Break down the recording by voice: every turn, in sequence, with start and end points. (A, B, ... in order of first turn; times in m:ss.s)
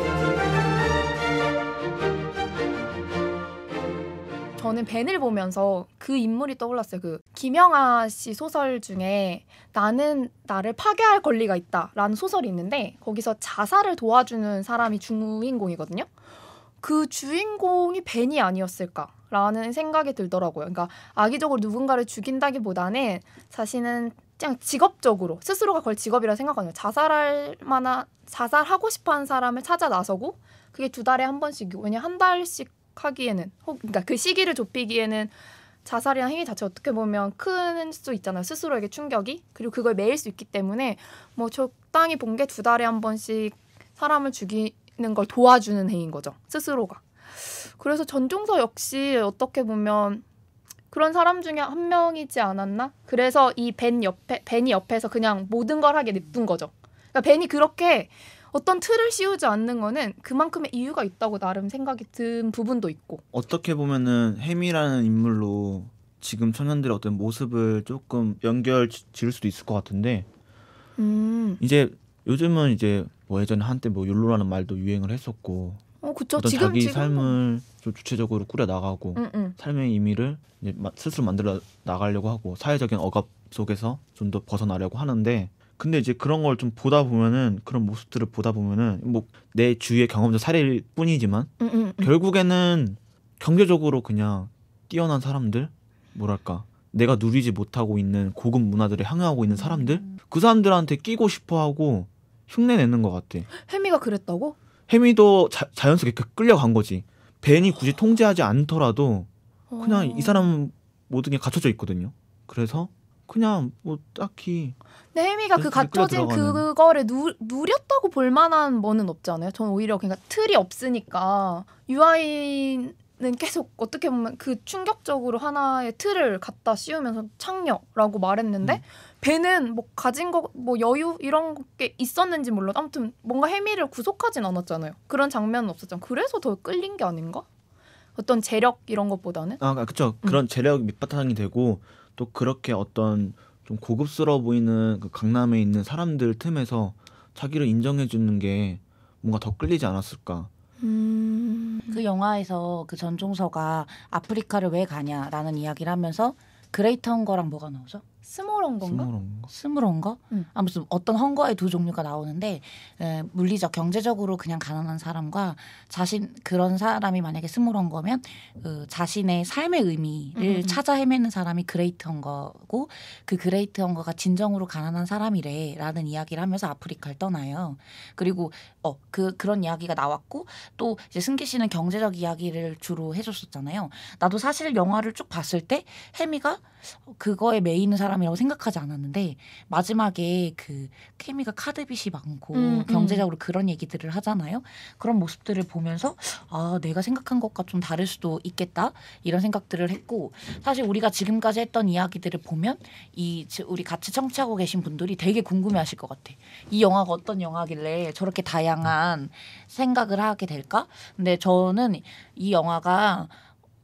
0:04.6-0:16.1 A
0:16.8-0:35.3 A
0:35.8-0:50.2 A
0:50.9-1:03.2 A
1:03.3-1:10.3 B
1:11.0-1:11.6 A
1:11.6-1:15.8 B
1:16.0-1:17.3 A
1:16.4-1:43.5 B
1:19.2-1:19.6 A
1:31.6-1:32.1 A
1:39.6-1:39.8 A
1:43.6-1:44.6 A
1:44.9-1:49.3 B
1:49.7-1:50.5 A
1:49.8-1:54.8 B
1:55.1-2:17.4 A
1:55.6-1:56.6 B
2:18.2-2:19.6 A
2:19.6-2:30.5 B
2:30.8-2:32.0 A
2:31.9-2:38.0 C
2:38.3-2:39.1 A
2:38.8-2:39.5 B
2:39.5-3:33.4 C
2:50.4-2:50.8 A
3:12.5-3:13.2 A